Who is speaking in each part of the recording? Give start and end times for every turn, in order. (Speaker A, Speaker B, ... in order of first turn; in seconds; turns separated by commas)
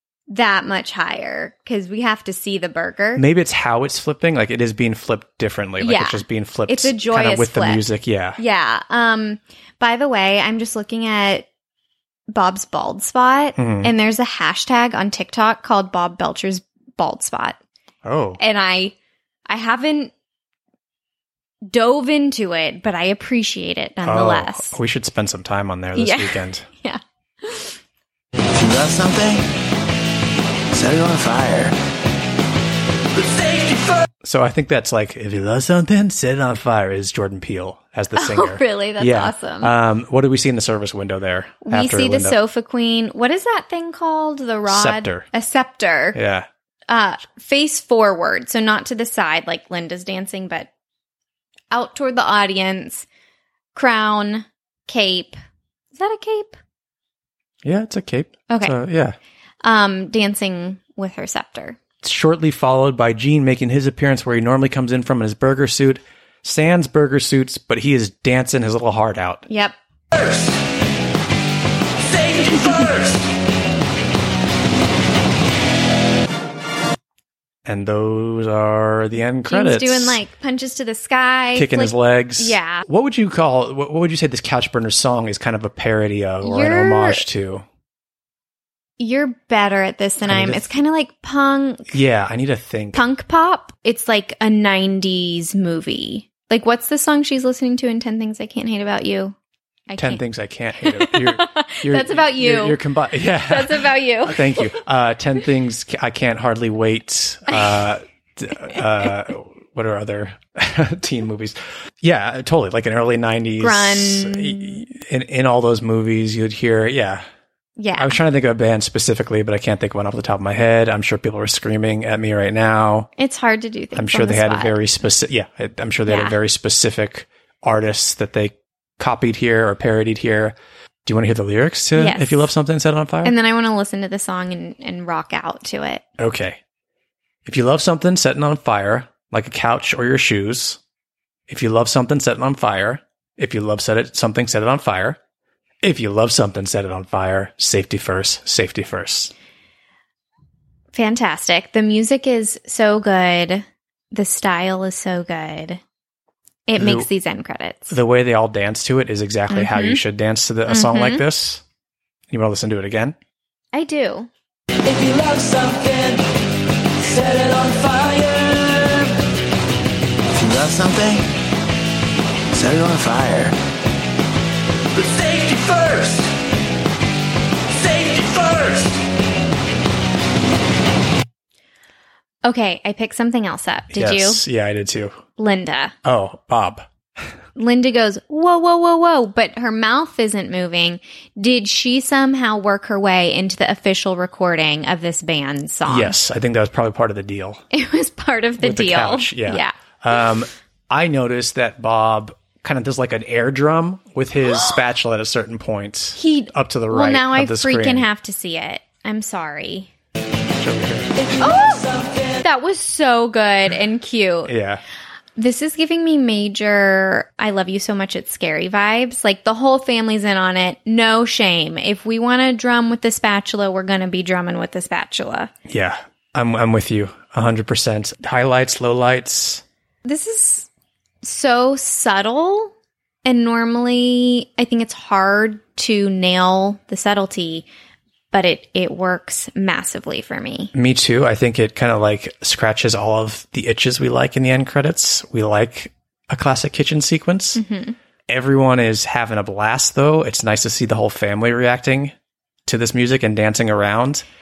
Speaker A: 0.3-3.2, Speaker B: 3.1-8.4, Speaker A: 5.8-7.8, Speaker A: 8.4-11.5, Speaker A: 12.3-17.6, Speaker B: 13.6-13.9, Speaker B: 18.0-18.4, Speaker A: 18.4-18.9, Speaker A: 19.5-20.1, Speaker A: 21.7-24.7, Speaker B: 24.0-26.6, Speaker A: 25.9-27.8, Speaker C: 28.5-29.4, Speaker C: 30.7-31.7, Speaker C: 33.4-33.7, Speaker B: 34.2-42.4, Speaker A: 38.1-39.7, Speaker A: 41.6-46.2, Speaker B: 44.7-45.3, Speaker B: 46.1-46.5, Speaker A: 46.9-50.7, Speaker A: 51.7-53.0, Speaker A: 53.7-55.4, Speaker A: 55.9-56.6, Speaker B: 57.6-59.1, Speaker A: 58.5-58.8, Speaker A: 59.6-61.8, Speaker B: 62.0-69.4, Speaker A: 69.5-69.7, Speaker A: 72.6-72.9, Speaker B: 77.7-80.2, Speaker A: 79.5-82.8, Speaker B: 81.5-87.6, Speaker A: 86.4-87.2, Speaker A: 89.0-92.0, Speaker B: 90.2-90.7, Speaker B: 91.9-93.0, Speaker A: 92.9-99.3, Speaker A: 99.9-100.2, Speaker B: 100.0-117.2, Speaker A: 100.8-104.8, Speaker A: 107.5-107.8, Speaker A: 113.6-114.8, Speaker A: 117.8-118.2, Speaker B: 118.0-123.1, Speaker A: 123.2-124.8, Speaker B: 123.9-133.3, Speaker A: 126.1-126.3, Speaker A: 131.9-132.4, Speaker A: 133.2-136.1, Speaker B: 136.2-136.6, Speaker B: 137.4-140.8, Speaker B: 141.5-145.2, Speaker B: 145.8-149.3, Speaker A: 150.9-155.8, Speaker A: 156.7-158.0, Speaker B: 156.8-157.1, Speaker B: 157.9-161.6, Speaker A: 159.5-160.0, Speaker A: 160.7-161.2, Speaker B: 162.3-163.1, Speaker A: 163.7-164.3, Speaker A: 164.9-165.9, Speaker C: 170.3-171.2, Speaker C: 172.5-173.6, Speaker C: 175.0-176.2, Speaker C: 177.8-178.9, Speaker A: 182.4-184.4, Speaker B: 183.9-185.2, Speaker A: 185.4-185.9, Speaker B: 186.0-186.9, Speaker A: 187.6-196.1, Speaker B: 195.9-197.6, Speaker A: 197.7-199.7, Speaker B: 198.6-208.1, Speaker A: 204.5-204.7, Speaker A: 206.2-209.9, Speaker B: 210.6-211.1, Speaker A: 211.2-214.5, Speaker B: 214.4-214.8, Speaker A: 215.4-225.5, Speaker B: 225.7-229.6, Speaker A: 230.0-230.7, Speaker A: 231.2-232.7, Speaker A: 233.2-237.6, Speaker A: 238.3-240.7, Speaker B: 240.7-247.6, Speaker A: 247.6-247.9, Speaker B: 248.3-252.1, Speaker B: 252.7-254.3